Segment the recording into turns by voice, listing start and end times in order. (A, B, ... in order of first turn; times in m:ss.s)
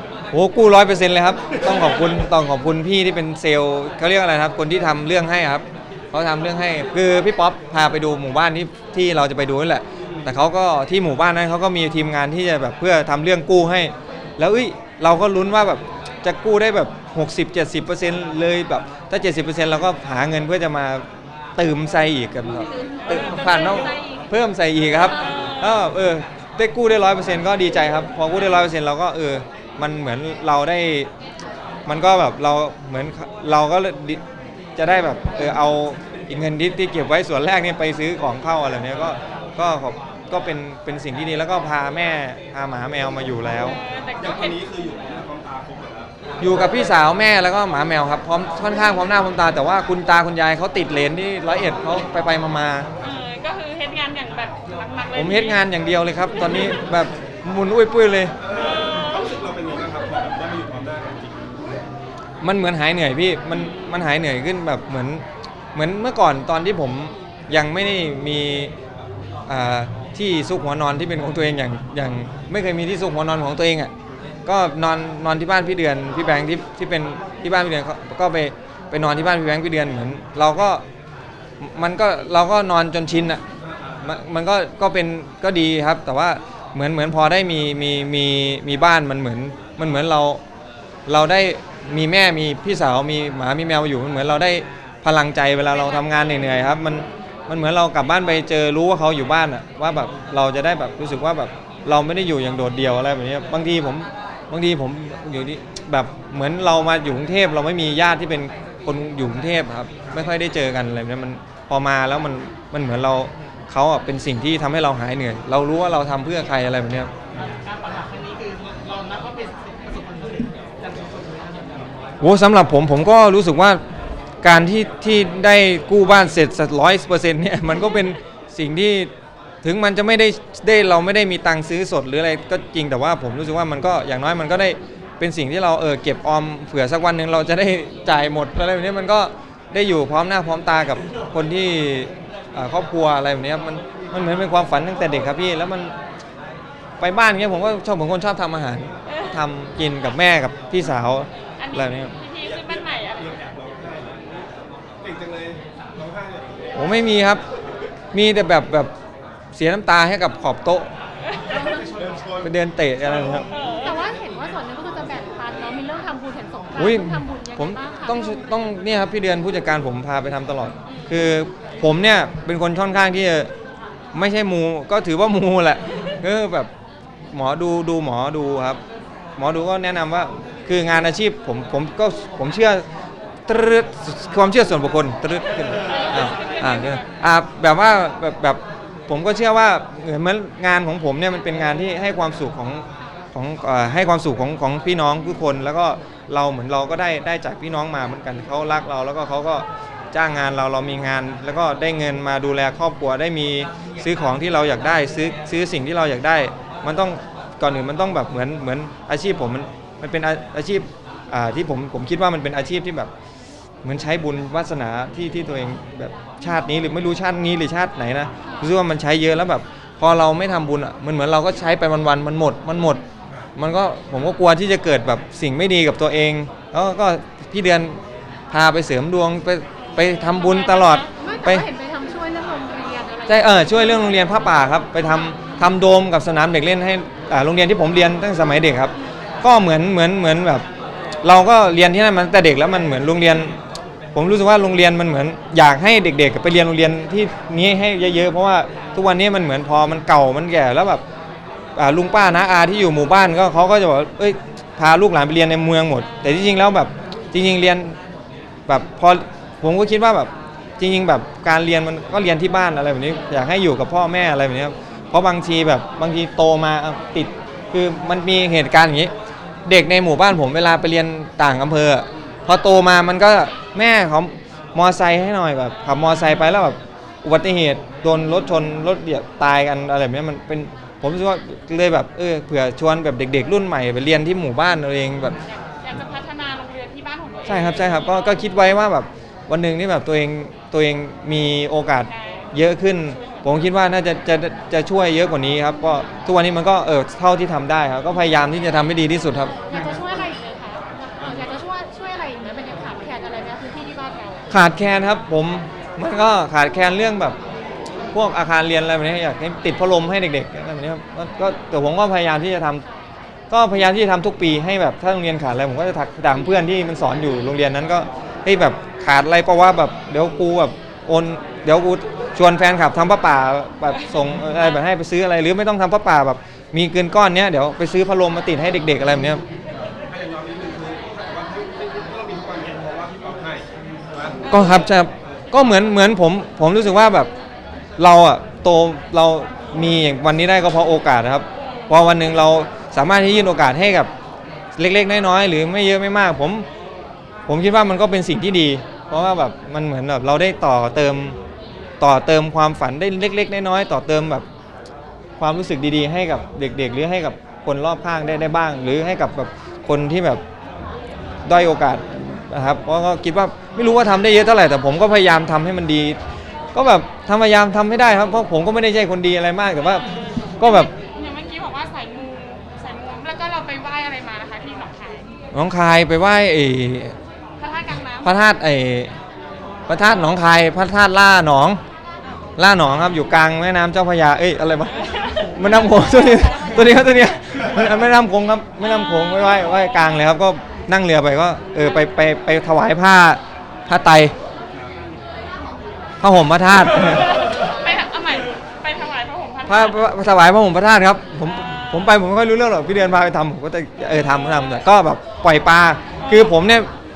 0:00.3-0:21.0 A
0:21.6-0:31.1 A
0:25.1-0:25.8 B
0:31.9-0:34.2 A
0:34.8-0:43.8 A
0:43.6-0:44.6 B
0:44.2-0:46.2 C
0:46.4-0:52.9 A
0:53.0-0:55.6 B
0:55.1-0:58.3 A
0:58.4-1:01.8 C
0:58.6-0:59.3 B
1:02.4-1:08.7 A
1:09.5-1:13.9 A
1:14.4-1:20.8 A
1:21.6-1:23.4 A
1:24.0-1:30.4 A
1:31.1-1:57.1 A
1:57.4-2:01.9 D
2:02.2-2:03.8 A
2:04.4-2:09.1 A
2:09.6-2:25.9 A
2:27.0-2:32.2 A
2:31.6-2:33.2 B
2:32.4-2:34.4 C
2:35.0-2:37.1 C
2:36.7-2:37.4 A
2:38.1-2:38.9 A
2:39.5-2:40.9 A
2:41.5-2:41.8 E
2:41.6-2:42.5 C
2:42.4-2:43.5 A
2:43.1-2:43.4 C
2:43.5-2:44.0 B
2:43.8-2:48.4 E
2:46.8-2:53.5 A
2:50.8-2:51.1 B
2:54.1-2:56.7 A
2:57.3-2:58.8 A
2:59.4-3:02.8 A
3:03.5-3:33.1 A
3:05.8-3:07.1 B
3:33.8-3:43.0 A
3:43.6-3:51.7 A
3:50.3-3:51.1 B
3:51.2-3:54.0 E
3:53.3-4:00.7 A
4:01.2-4:03.6 A
4:04.1-4:11.0 A
4:11.8-4:18.0 A
4:18.7-4:29.1 A
4:29.6-4:45.4 A
4:45.4-4:48.5 B
4:47.4-4:59.8 A
4:52.1-4:52.5 B
4:53.1-4:53.6 B
4:59.7-5:04.4 E
5:04.5-5:07.4 A
5:08.1-5:12.8 A
5:13.5-5:29.4 A
5:30.0-5:35.0 C
5:34.4-5:34.9 B
5:34.5-5:37.3 A
5:38.0-5:44.1 A
5:44.8-5:46.7 A
5:47.5-5:51.4 A
5:52.0-5:54.4 A
5:55.4-6:00.4 A
6:01.4-6:06.2 A
6:06.7-6:10.9 A
6:09.8-6:15.3 B
6:15.5-6:17.2 A
6:17.6-6:18.3 B
6:18.2-6:19.2 A
6:19.9-6:21.8 A
6:22.6-6:34.3 A
6:24.9-6:27.0 B
6:29.1-6:29.6 B
6:36.2-6:37.5 A
6:37.2-6:40.0 B
6:39.6-6:46.9 A
6:46.2-6:46.6 B